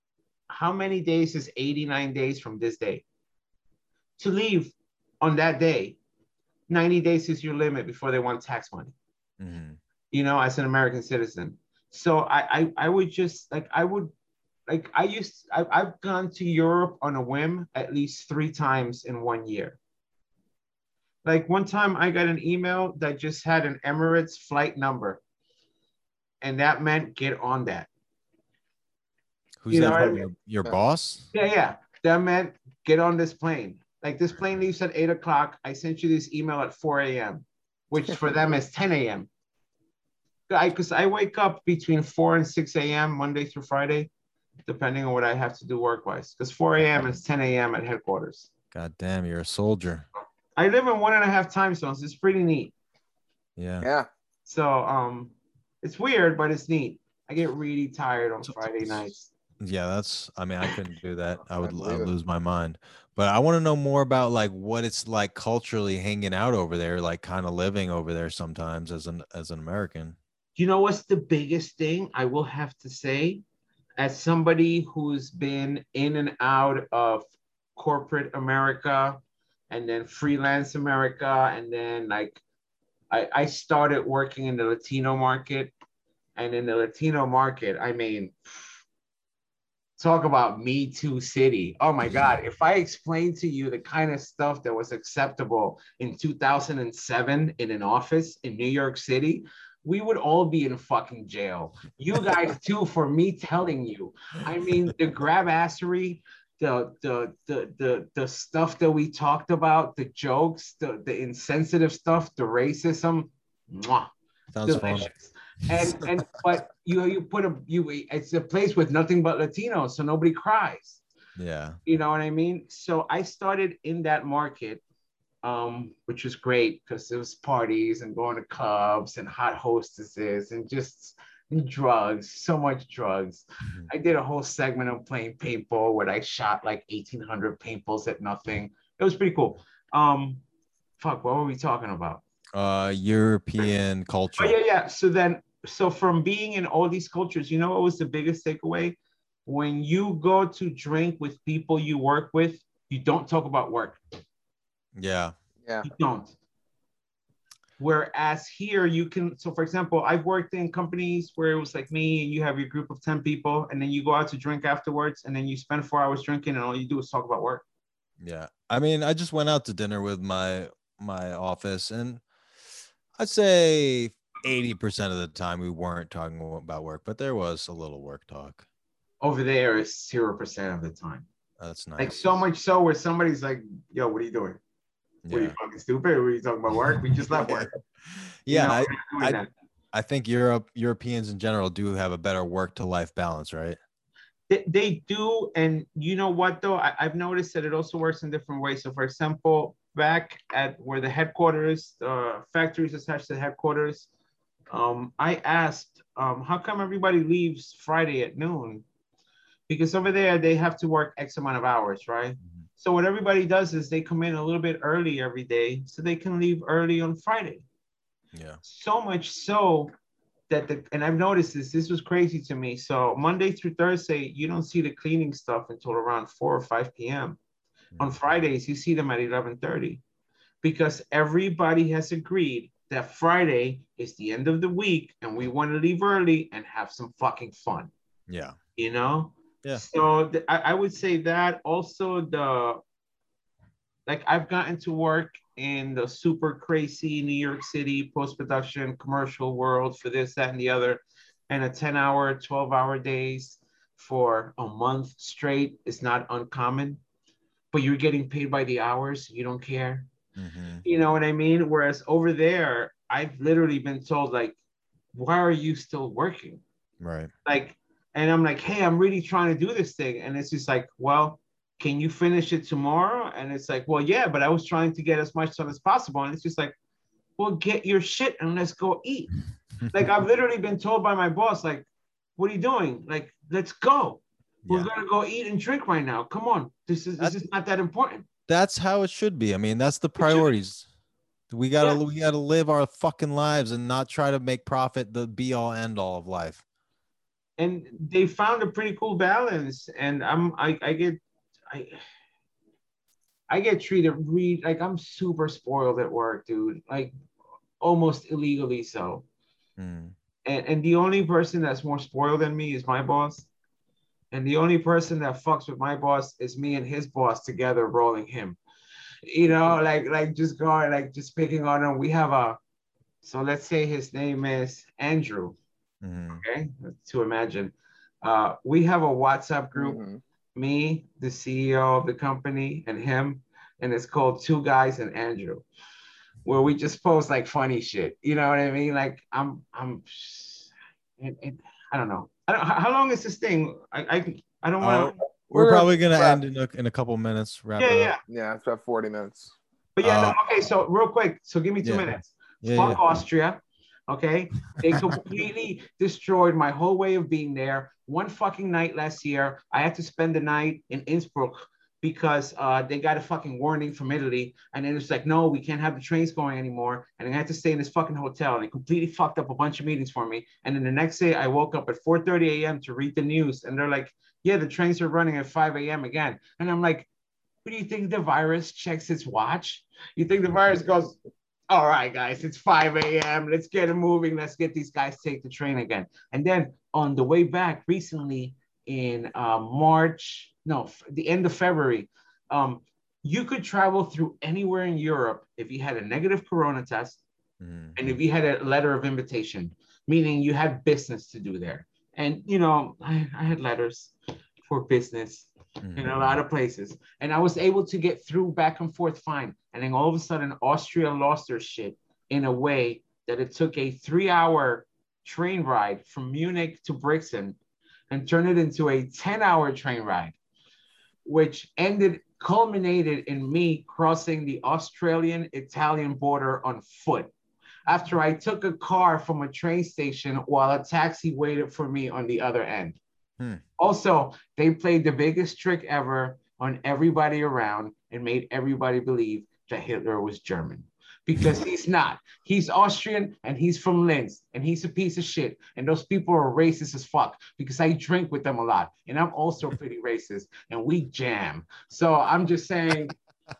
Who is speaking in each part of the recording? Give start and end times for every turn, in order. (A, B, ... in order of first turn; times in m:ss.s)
0:00.5-0:03.0 A
0:04.2-0:06.0 A
0:06.7-0:08.9 A
0:09.4-0:09.8 B
0:10.1-0:14.1 A
0:14.7-0:19.8 A
0:21.2-0:25.2 A
0:26.4-0:27.9 A
0:29.6-0:31.3 B
0:29.7-0:30.2 A
0:31.3-0:39.3 A
0:40.5-0:44.1 A
0:44.6-0:48.5 A
0:48.7-0:50.1 B
0:50.6-0:52.7 A
0:53.6-0:53.9 B
0:53.8-0:54.1 C
0:54.4-0:59.3 A
0:58.5-0:58.9 B
0:59.6-1:10.2 B
1:01.6-1:02.1 C
1:10.6-1:13.4 A
1:14.0-1:17.2 A
1:17.8-1:22.4 A
1:23.1-1:25.7 A
1:26.4-1:28.8 A
1:30.0-1:54.1 A
1:54.5-1:55.1 B
1:54.6-2:01.0 A
2:01.4-2:01.8 B
2:01.8-2:04.8 A
2:05.4-2:20.4 A
2:21.0-2:22.2 A
2:22.5-2:24.5 B
2:24.4-2:34.0 A
2:34.9-2:35.3 B
2:35.8-2:36.3 A
2:37.8-2:47.6 A
2:48.2-2:52.2 B
2:53.2-2:58.6 B
2:59.2-3:01.2 A
3:01.6-3:02.3 B
3:02.0-3:04.6 A
3:05.2-3:05.6 B
3:05.3-3:07.8 A
3:07.2-3:07.7 B
3:08.4-3:09.4 B
3:08.5-3:09.5 A
3:09.9-3:13.8 B
3:14.5-3:24.1 A
3:24.7-3:28.8 A
3:29.7-3:37.6 A
3:38.3-3:38.6 B
3:38.6-3:39.9 A
3:40.5-3:47.4 A
3:48.0-3:50.0 A
3:50.6-3:57.9 A
3:58.3-3:58.6 B
3:58.8-4:02.8 A
4:04.0-4:17.0 A
4:17.7-4:20.1 A
4:20.4-4:20.8 B
4:20.8-4:24.6 A
4:25.1-4:26.6 A
4:27.0-4:27.3 B
4:27.4-4:36.7 A
4:37.4-4:39.3 A
4:39.9-4:48.2 A
4:48.5-4:50.8 B
4:50.2-4:50.5 A
4:51.5-4:56.6 B
4:57.6-5:02.0 A
5:03.5-5:07.1 A
5:07.8-5:09.2 A
5:09.8-5:10.1 B
5:10.4-5:13.5 A
5:14.3-5:18.6 A
5:19.2-5:22.6 A
5:23.2-5:25.6 A
5:26.0-5:26.4 B
5:26.3-5:30.0 A
5:29.8-5:30.2 C
5:30.5-5:35.6 A
5:36.4-5:45.2 A
5:44.8-5:48.1 B
5:45.5-5:46.4 C
5:47.8-5:48.2 A
5:48.3-5:49.5 C
5:50.0-6:17.1 A
5:50.0-5:50.4 B
5:52.6-5:53.0 B
6:17.6-6:21.2 A
6:21.7-6:37.2 A
6:37.6-6:38.0 B
6:38.0-6:44.1 A
6:44.6-6:57.6 A
6:45.8-6:46.4 B
6:58.1-7:00.4 A
7:01.2-7:07.3 A
7:07.9-7:13.0 A
7:13.8-7:33.1 A